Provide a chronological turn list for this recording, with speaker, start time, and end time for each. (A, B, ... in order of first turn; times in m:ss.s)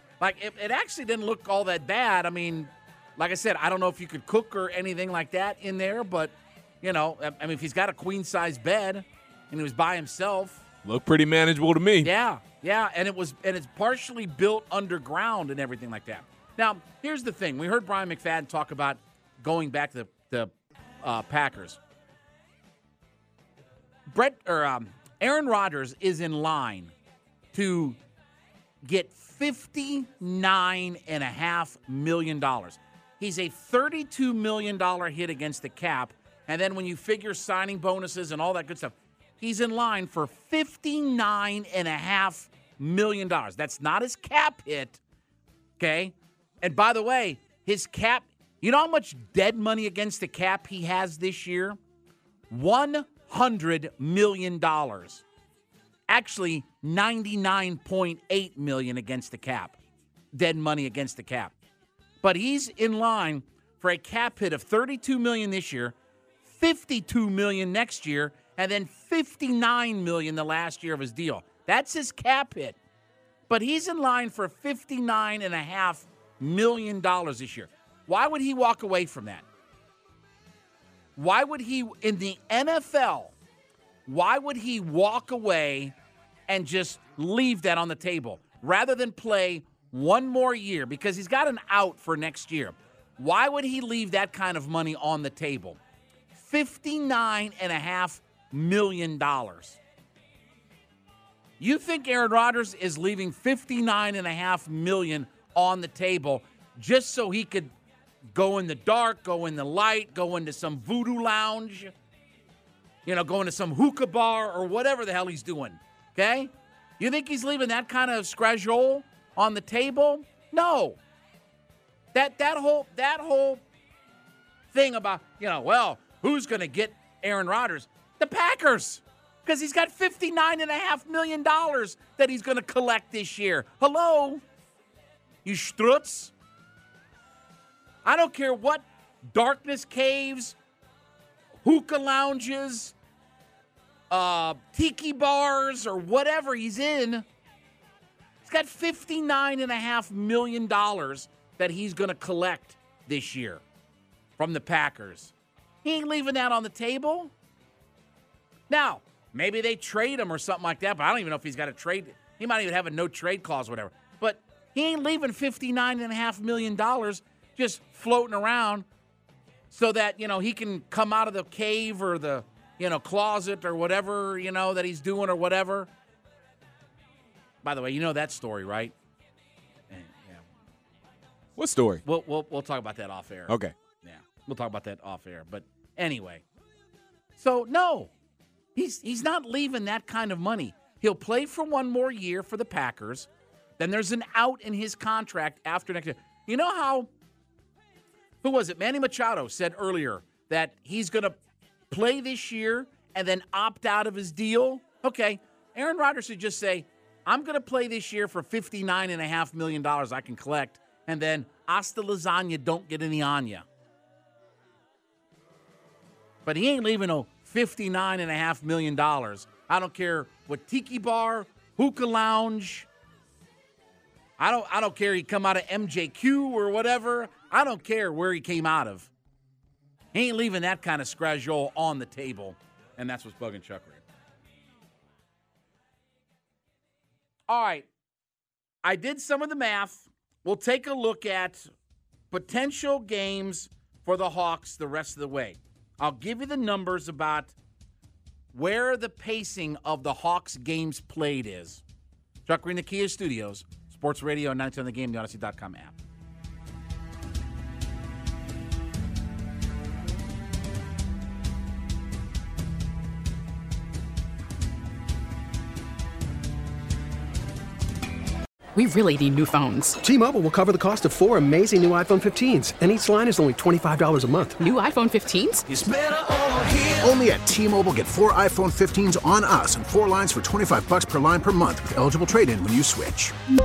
0:00.2-0:10.6 A
0:10.8-0:12.1 B
0:12.0-0:21.8 A
0:24.1-0:26.9 A
0:27.5-0:28.0 A
0:28.8-0:45.0 A
0:45.8-0:51.8 A
0:52.5-0:55.2 A
0:56.1-0:59.8 A
1:00.3-1:01.5 A
1:02.2-1:05.9 A
1:06.4-1:12.8 A
1:13.5-1:19.4 A
1:21.2-1:23.3 A
1:24.0-1:25.9 A
1:26.5-1:35.8 A
1:36.4-1:39.8 A
1:41.6-1:47.7 A
1:48.3-1:51.9 A
1:53.0-2:01.0 A
2:02.1-2:03.6 A
2:04.7-2:14.4 A
2:15.4-2:16.3 A
2:18.0-2:20.5 A
2:21.6-2:22.9 A
2:24.1-2:27.2 A
2:28.4-2:33.6 A
2:34.4-2:35.3 A
2:35.8-2:37.3 A
2:38.7-2:48.8 A
2:49.7-2:55.9 A
2:57.6-2:58.9 A
2:59.9-3:00.4 A
3:01.6-3:02.0 B
3:02.0-3:06.4 A
3:03.5-3:03.7 B
3:07.4-3:08.1 A
3:08.8-3:13.3 A
3:13.8-3:17.1 A
3:18.4-3:21.4 A
3:21.9-3:33.6 A
3:36.4-3:42.9 A
3:44.4-3:49.1 A
3:50.1-3:54.0 A
3:57.5-3:57.9 A
3:58.8-4:01.7 A
4:02.3-4:07.5 A
4:08.5-4:11.8 A
4:12.4-4:15.9 A
4:28.7-4:30.0 C
4:30.0-4:34.6 D
4:34.6-4:35.6 C
4:37.0-4:43.3 E